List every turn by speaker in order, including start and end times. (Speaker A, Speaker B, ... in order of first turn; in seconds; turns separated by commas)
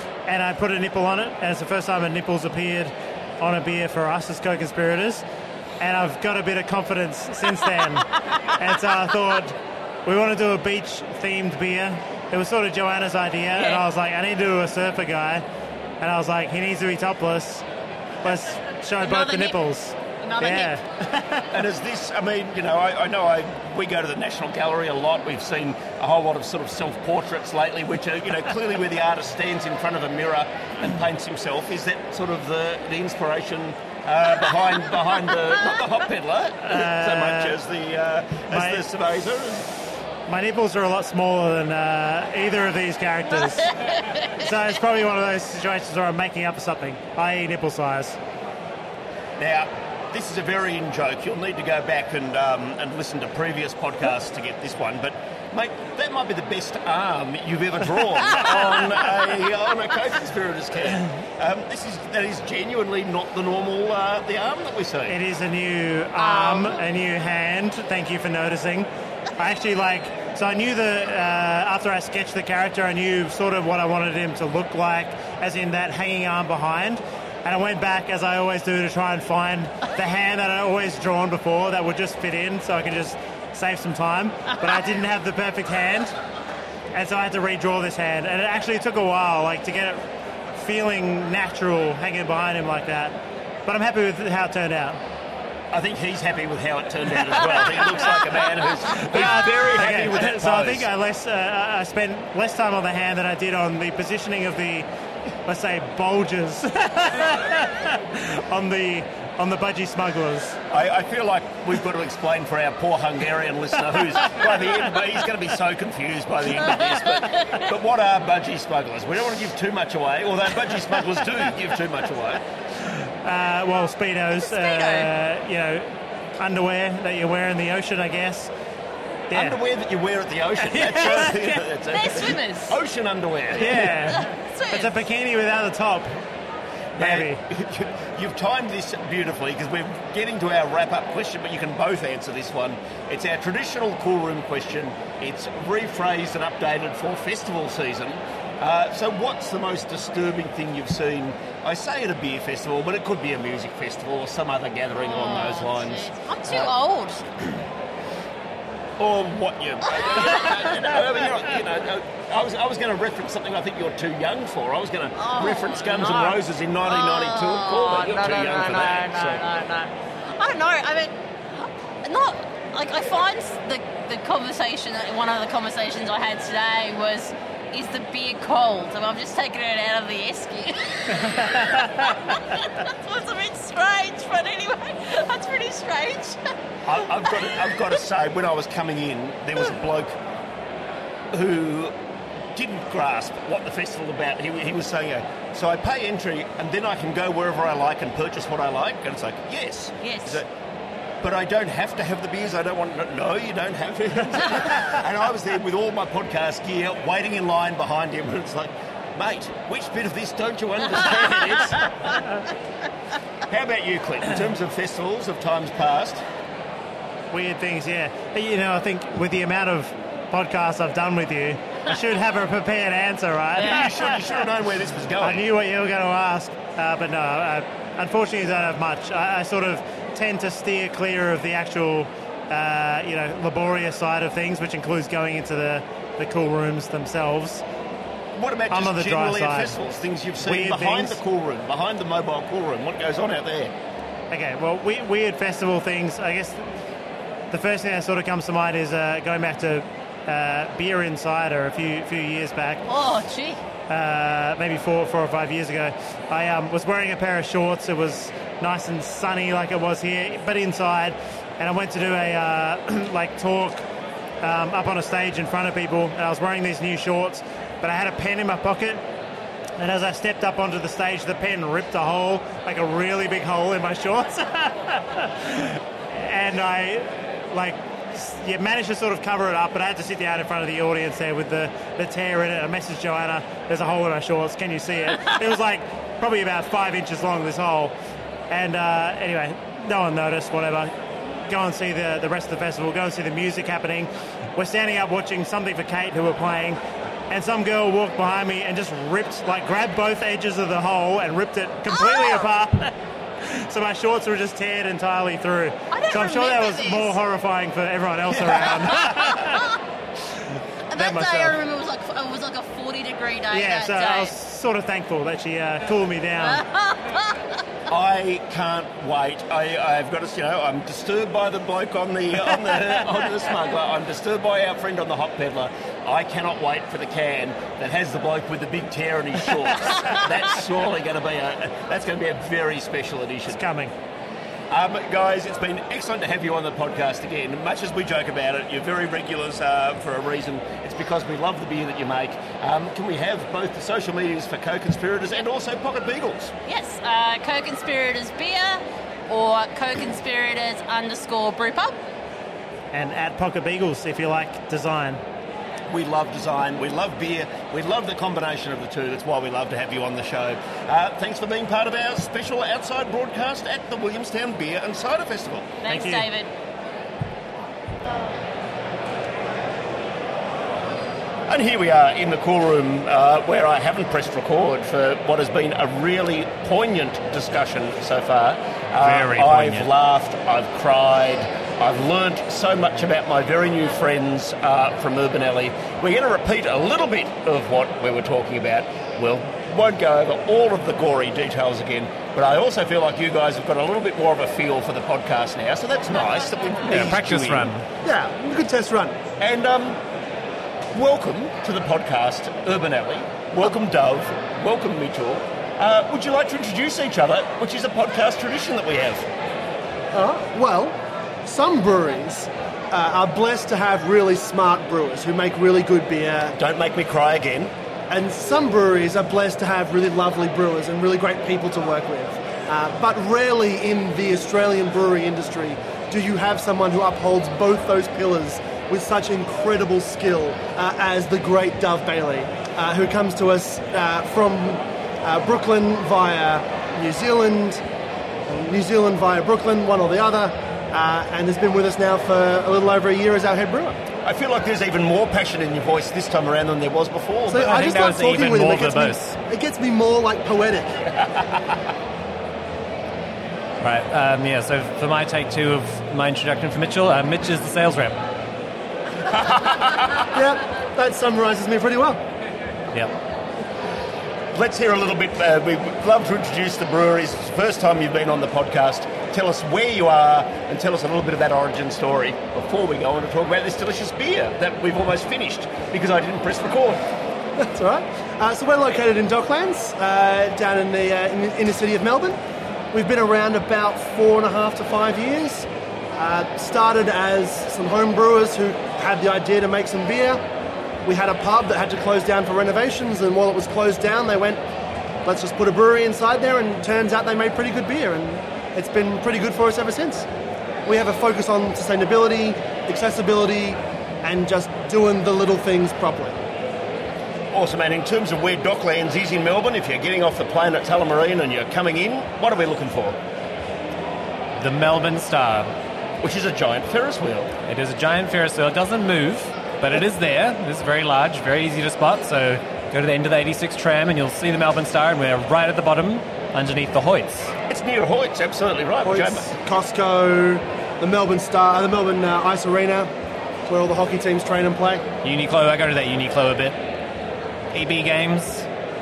Speaker A: 0.3-5.2, Speaker A: 5.8-15.4, Speaker A: 16.0-17.7, Speaker A: 18.2-21.6, Speaker B: 19.0-19.6, Speaker B: 20.2-20.8, Speaker C: 21.5-39.7, Speaker A: 36.6-37.6, Speaker A: 38.5-38.9, Speaker A: 40.3-43.8, Speaker A: 44.3-48.2, Speaker C: 49.4-65.2, Speaker A: 65.1-86.2, Speaker B: 66.2-66.8, Speaker A: 86.9-95.0, Speaker C: 95.7-100.9, Speaker A: 97.4-98.0, Speaker A: 99.0-104.9, Speaker A: 105.5-110.6, Speaker C: 110.7-122.4, Speaker B: 116.6-117.6, Speaker A: 122.8-128.5, Speaker B: 124.5-125.1, Speaker A: 129.3-129.6, Speaker C: 129.3-134.1, Speaker A: 130.6-131.4, Speaker B: 131.0-131.4, Speaker B: 131.9-132.8, Speaker A: 133.6-136.1, Speaker B: 134.1-135.0, Speaker A: 137.0-137.4, Speaker C: 137.0-156.7, Speaker B: 155.0-157.3, Speaker C: 159.0-169.4, Speaker B: 160.0-160.7, Speaker B: 165.2-186.5, Speaker C: 186.9-190.2, Speaker B: 187.4-187.9, Speaker C: 191.3-191.9, Speaker C: 192.6-200.5, Speaker B: 200.0-200.4, Speaker C: 201.2-212.2, Speaker C: 213.5-216.2, Speaker A: 217.3-224.2, Speaker C: 223.6-225.4, Speaker B: 223.6-223.8, Speaker A: 225.2-237.6, Speaker C: 238.4-243.7, Speaker A: 238.7-239.8, Speaker A: 240.4-241.2, Speaker A: 244.3-246.8, Speaker A: 247.5-252.8, Speaker B: 252.9-253.6, Speaker A: 253.9-263.9, Speaker A: 264.4-269.1, Speaker A: 269.8-287.9, Speaker A: 288.5-291.0, Speaker A: 291.5-309.7, Speaker B: 301.9-302.4, Speaker B: 305.9-307.2, Speaker B: 308.6-309.8, Speaker A: 310.6-311.6, Speaker B: 310.9-314.3, Speaker A: 313.5-316.6, Speaker B: 316.4-317.6, Speaker C: 317.9-333.6, Speaker A: 322.7-323.0, Speaker A: 333.5-333.9, Speaker C: 334.7-346.5, Speaker B: 346.7-352.0, Speaker A: 352.9-355.2, Speaker C: 355.9-365.7, Speaker B: 365.8-366.5, Speaker A: 365.9-366.3, Speaker C: 371.5-397.7, Speaker D: 379.0-379.9, Speaker D: 396.9-397.8, Speaker E: 398.0-399.2, Speaker C: 399.4-400.0, Speaker C: 400.9-409.3, Speaker E: 410.1-416.6, Speaker C: 416.6-417.7, Speaker E: 418.1-437.8, Speaker E: 438.5-444.0, Speaker C: 444.2-447.7, Speaker E: 447.5-451.0, Speaker D: 447.6-449.4, Speaker D: 453.8-458.2, Speaker C: 459.3-460.3, Speaker E: 460.3-462.2, Speaker C: 464.5-477.0, Speaker E: 477.6-482.4, Speaker E: 482.9-490.4, Speaker E: 491.1-494.6, Speaker E: 495.2-500.3, Speaker E: 500.9-506.4, Speaker C: 507.5-513.2, Speaker D: 514.6-515.7, Speaker C: 516.2-517.5, Speaker D: 517.7-527.5, Speaker C: 527.7-529.5, Speaker E: 529.0-533.1, Speaker E: 533.7-535.0, Speaker D: 535.2-536.8, Speaker D: 537.7-538.7